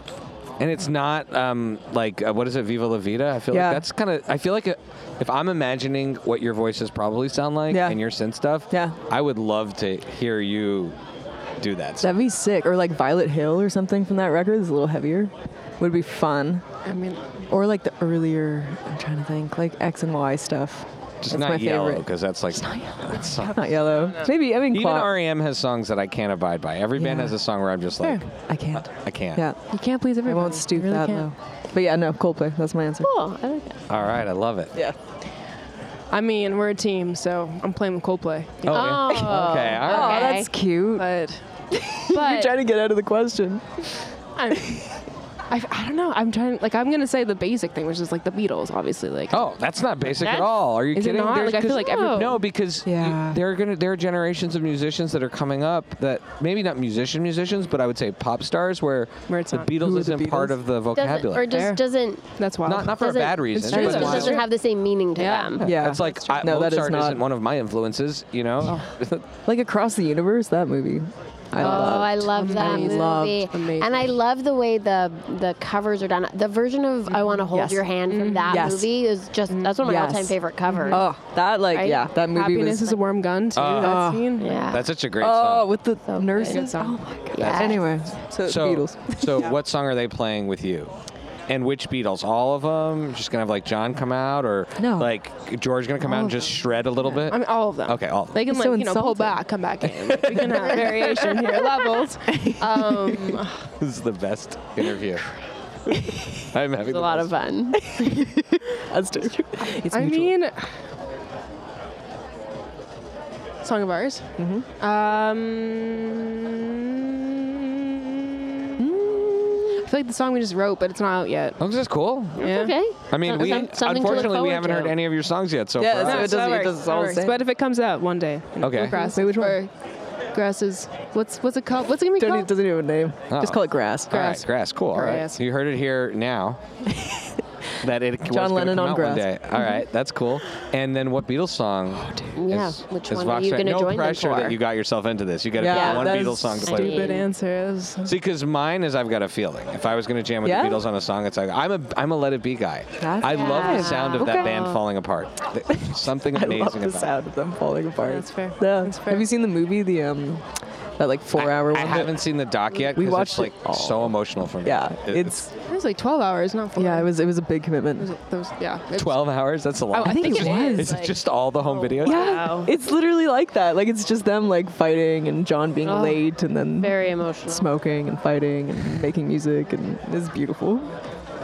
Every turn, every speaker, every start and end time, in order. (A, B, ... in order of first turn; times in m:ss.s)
0:00.6-0:11.0 A
0:03.5-0:03.8 B
0:07.7-0:08.0 B
0:08.7-0:09.0 B
0:11.6-0:12.1 A
0:12.0-0:16.6 B
0:16.8-0:17.4 C
0:17.5-0:25.1 B
0:21.2-0:23.8 A
0:23.2-0:24.3 C
0:24.5-0:29.5 A
0:27.0-0:27.4 B
0:28.3-0:33.1 B
0:29.7-0:31.3 C
0:33.0-0:33.8 D
0:33.9-0:34.8 A
0:36.1-0:39.0 C
0:38.6-0:40.3 A
0:38.7-0:40.5 D
0:39.4-0:41.1 B
0:39.9-0:40.3 C
0:40.9-0:41.4 C
0:41.7-0:43.9 B
0:42.1-0:42.5 C
0:44.4-0:45.0 C
0:45.5-0:49.5 C
0:49.3-1:01.5 A
0:50.2-0:50.5 D
0:50.9-0:52.4 C
0:51.7-0:52.4 D
0:52.8-0:53.4 B
0:59.3-0:59.7 C
0:59.8-1:00.6 B
1:00.9-1:02.4 D
1:01.4-1:01.8 C
1:02.4-1:04.5 C
1:02.6-1:04.4 A
1:02.9-1:05.6 D
1:03.7-1:04.4 B
1:05.2-1:06.5 C
1:05.6-1:09.3 A
1:05.6-1:07.3 B
1:08.6-1:08.9 C
1:09.4-1:13.5 B
1:11.6-1:21.1 D
1:11.6-1:14.2 C
1:17.5-1:17.9 B
1:18.1-1:18.7 C
1:18.5-1:18.9 B
1:19.5-1:19.8 C
1:19.8-1:23.0 B
1:20.6-1:21.0 C
1:21.7-1:22.1 D
1:22.3-1:24.8 C
1:23.5-1:24.0 A
1:23.8-1:29.5 B
1:24.4-1:24.9 D
1:24.7-1:25.7 A
1:26.0-1:26.7 D
1:26.4-1:27.0 C
1:27.3-1:27.9 D
1:27.4-1:27.8 A
1:28.4-1:30.9 A
1:31.5-1:38.4 A
1:34.8-1:35.1 B
1:36.1-1:36.6 C
1:37.2-1:43.7 C
1:38.5-1:43.4 B
1:40.4-1:41.7 D
1:43.8-1:45.2 A
1:46.5-1:47.3 A
1:46.8-1:47.9 D
1:47.7-1:50.3 B
1:49.2-1:50.8 C
1:53.6-2:01.6 C
1:54.4-1:54.6 B
1:58.8-1:59.4 B
2:01.6-2:02.5 A
2:02.4-2:02.7 C
2:02.4-2:05.0 D
2:03.1-2:06.4 A
2:05.8-2:07.4 B
2:06.0-2:09.7 C
2:08.6-2:09.0 A
2:08.8-2:09.6 B
2:10.3-2:12.5 C
2:12.1-2:14.4 B
2:13.3-2:16.6 A
2:14.2-2:15.4 C
2:16.9-2:17.4 B
2:17.8-2:27.0 A
2:18.3-2:19.7 B
2:22.0-2:22.3 B
2:22.3-2:24.6 D
2:25.6-2:27.3 B
2:25.7-2:27.3 D
2:26.8-2:28.2 C
2:28.0-2:37.1 A
2:30.4-2:30.8 B
2:33.0-2:34.5 B
2:33.2-2:34.8 C
2:33.5-2:34.4 D
2:35.7-2:42.2 B
2:38.0-2:39.3 C
2:41.3-2:45.4 A
2:42.9-2:45.5 B
2:45.7-2:47.1 C
2:46.7-2:48.1 B
2:48.0-2:49.3 C
2:48.9-2:52.5 A
2:49.9-2:51.1 C
2:50.0-2:51.0 B
2:50.5-2:52.7 D
2:52.0-3:01.0 B
2:52.1-2:52.7 C
2:55.8-2:57.7 D